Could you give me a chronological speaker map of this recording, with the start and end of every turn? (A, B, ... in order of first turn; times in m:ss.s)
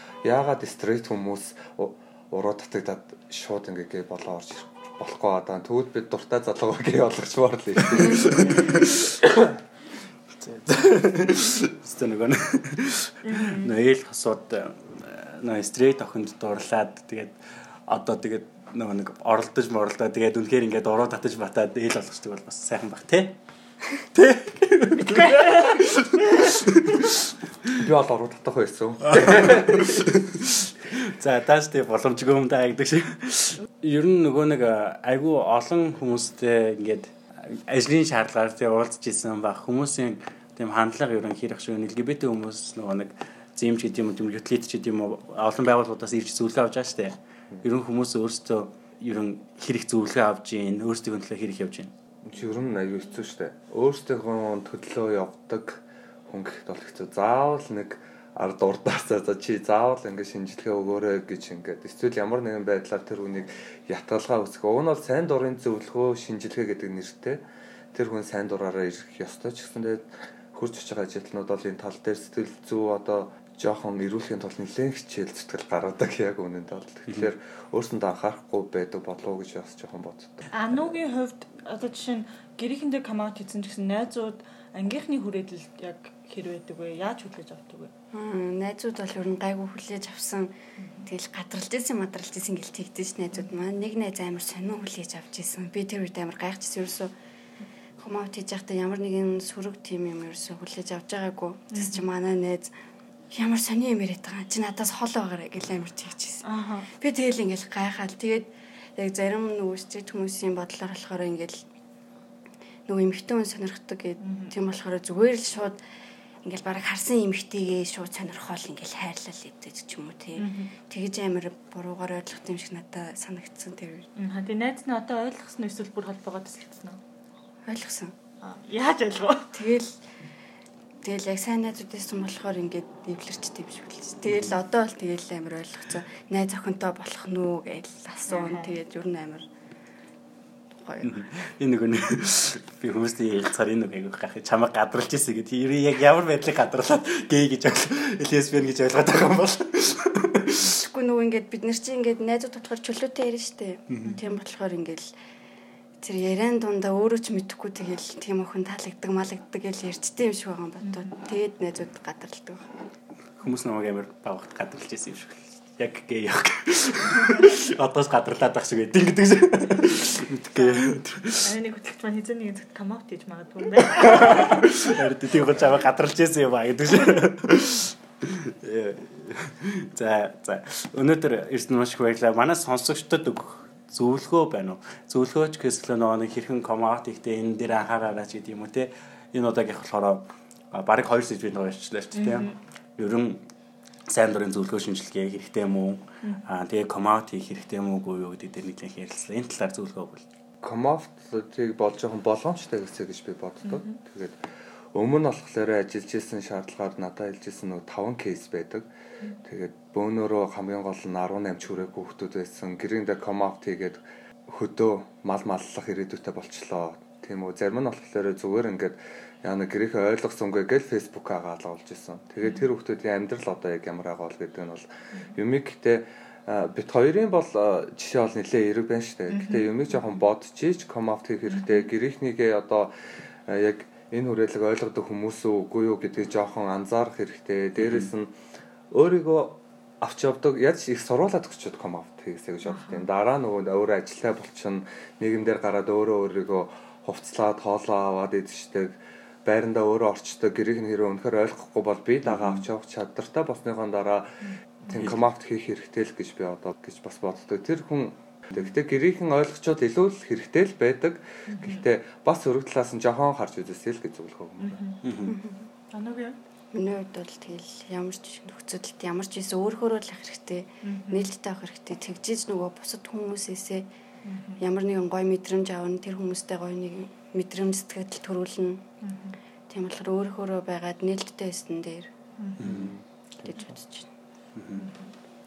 0:00.2-0:09.6 A
0:07.9-0:09.0 B
0:10.4-0:23.4 B
0:13.2-0:13.7 C
0:24.0-0:27.7 B
0:25.3-0:25.7 C
0:27.8-0:30.1 A
0:29.1-0:51.9 B
0:52.2-1:07.4 A
1:07.9-1:20.9 A
1:20.5-1:27.9 C
1:28.1-1:37.1 D
1:30.8-1:31.1 C
1:38.0-1:42.7 D
1:41.7-1:42.1 C
1:43.3-1:51.7 D
1:46.4-1:46.9 C
1:52.9-1:55.8 D
1:54.2-1:54.6 C
1:56.4-2:04.1 D
2:00.4-2:00.7 C
2:04.2-2:07.0 C
2:07.7-2:08.1 D
2:08.4-2:09.6 C
2:09.5-2:10.0 D
2:11.0-2:19.5 D
2:18.3-2:18.8 C
2:20.8-2:21.2 D
2:21.0-2:30.6 B
2:30.7-2:35.1 D
2:33.9-2:34.2 B
2:34.1-2:34.4 C
2:36.0-2:42.7 D
2:40.8-2:41.1 C
2:43.4-2:51.6 B
2:50.5-2:55.0 C
2:53.9-3:13.5 B
3:12.2-3:12.6 C
3:14.1-3:20.2 B
3:20.6-3:24.4 A
3:23.6-3:24.0 C
3:24.9-3:28.9 A
3:29.4-3:53.0 A
3:42.4-3:42.7 C
3:49.3-3:50.1 C
3:51.5-3:51.9 C
3:53.5-3:58.4 A
3:57.8-3:58.1 B
3:58.9-4:24.9 A
4:02.6-4:03.1 C
4:12.2-4:12.6 B
4:21.5-4:21.8 C
4:24.6-4:25.0 C
4:25.0-4:25.4 B
4:25.3-4:25.7 D
4:25.9-4:26.4 C
4:26.7-4:33.9 D
4:30.8-4:31.2 C
4:34.2-4:34.6 C
4:34.6-4:38.9 D
4:39.0-4:39.4 C
4:39.7-4:42.1 D
4:42.4-4:42.8 C
4:42.6-4:42.9 B
4:42.6-4:43.0 A
4:43.6-4:44.1 D
4:44.6-4:44.9 B
4:44.8-4:45.1 C